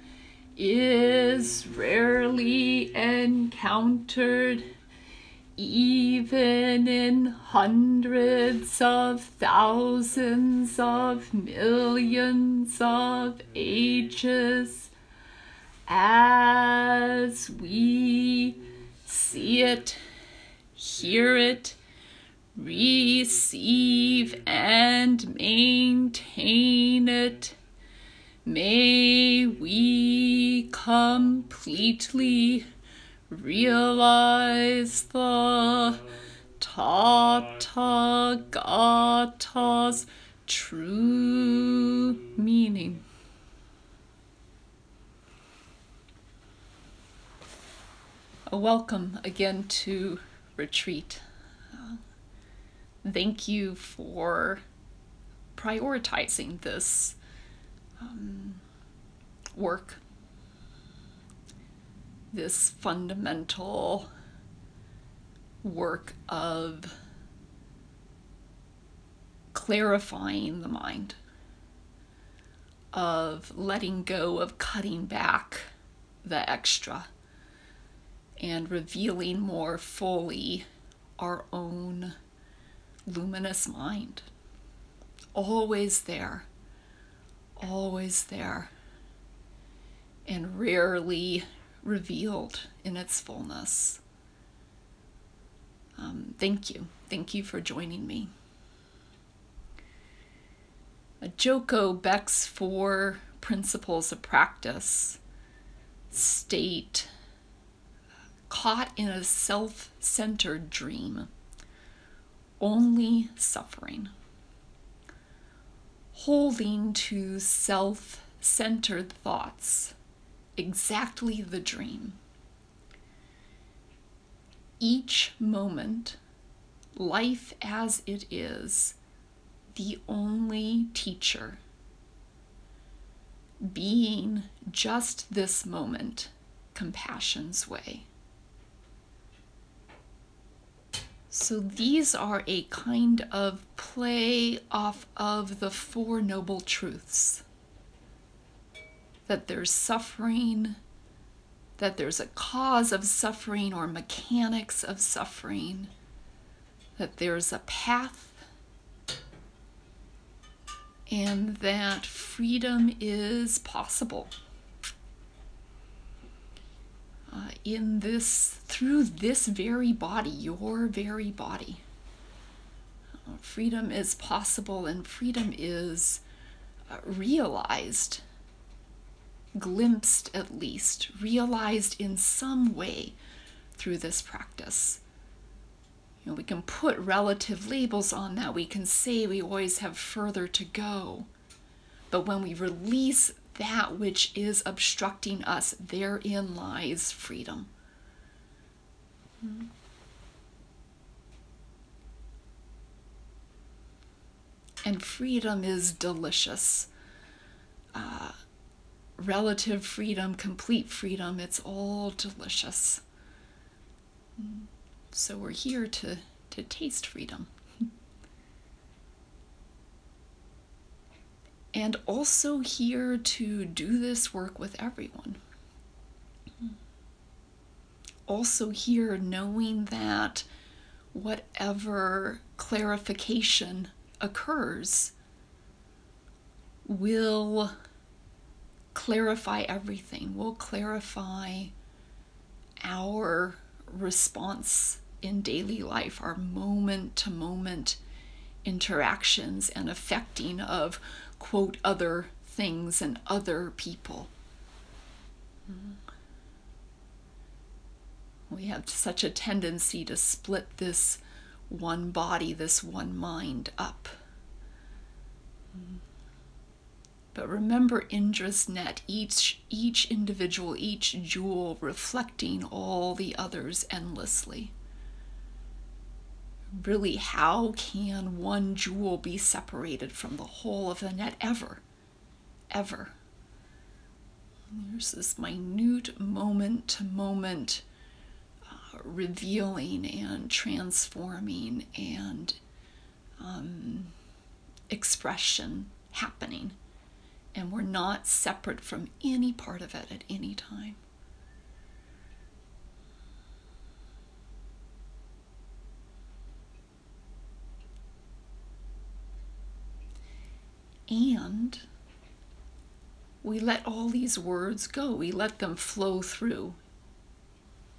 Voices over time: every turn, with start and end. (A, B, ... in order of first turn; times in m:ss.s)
0:00.6-0:04.7 A
0:05.6-0:14.9 A
0:15.9-0:20.0 A
0:20.8-0:21.8 A
0:22.6-0:27.6 A
0:28.4-0:32.7 A
0:33.3-0:43.0 A
0:48.5-0:52.0 A
0:53.0-0:54.6 A
0:55.6-0:57.2 A
0:58.0-0:58.6 A
0:59.6-1:00.0 A
1:02.3-1:04.1 A
1:05.6-1:07.0 A
1:09.5-1:11.2 A
1:12.9-1:15.7 A
1:16.2-1:17.1 A
1:18.4-1:20.6 A
1:21.2-1:22.2 A
1:23.1-1:24.3 A
1:25.3-1:26.5 A
1:27.6-1:28.7 A
1:30.3-1:34.0 A
1:36.0-1:38.3 A
1:41.2-1:45.2 A
1:46.1-1:47.1 A
1:48.5-1:51.3 A
1:52.6-1:54.1 A
1:56.1-2:00.0 A
2:00.6-2:02.2 A
2:04.8-2:06.2 A
2:07.0-2:09.0 A
2:09.7-2:11.6 A
2:13.6-2:18.1 A
2:21.3-2:27.4 A
2:29.3-2:30.8 A
2:31.8-2:35.9 A
2:37.0-2:38.4 A
2:41.1-2:44.3 A
2:47.3-2:51.8 A
2:53.2-2:56.2 A
2:56.9-2:58.2 A
2:59.6-3:03.2 A
3:03.8-3:05.0 A
3:06.2-3:11.3 A
3:12.1-3:17.7 A
3:24.8-3:26.9 A
3:27.9-3:28.3 A
3:29.2-3:33.0 A
3:34.4-3:37.5 A
3:41.7-3:45.4 A
3:48.3-3:50.5 A
3:51.1-3:55.1 A
3:56.8-3:57.8 A
3:58.9-4:01.7 A
4:02.8-4:08.0 A
4:08.6-4:14.3 A
4:18.5-4:24.2 A
4:27.3-4:34.7 A
4:36.8-4:41.8 A
4:42.7-4:43.1 A
4:44.7-4:47.8 A
4:48.7-4:52.6 A
4:53.4-4:54.1 A
4:54.9-4:56.8 A
4:57.5-5:01.0 A
5:11.1-5:11.8 A
5:13.4-5:16.8 A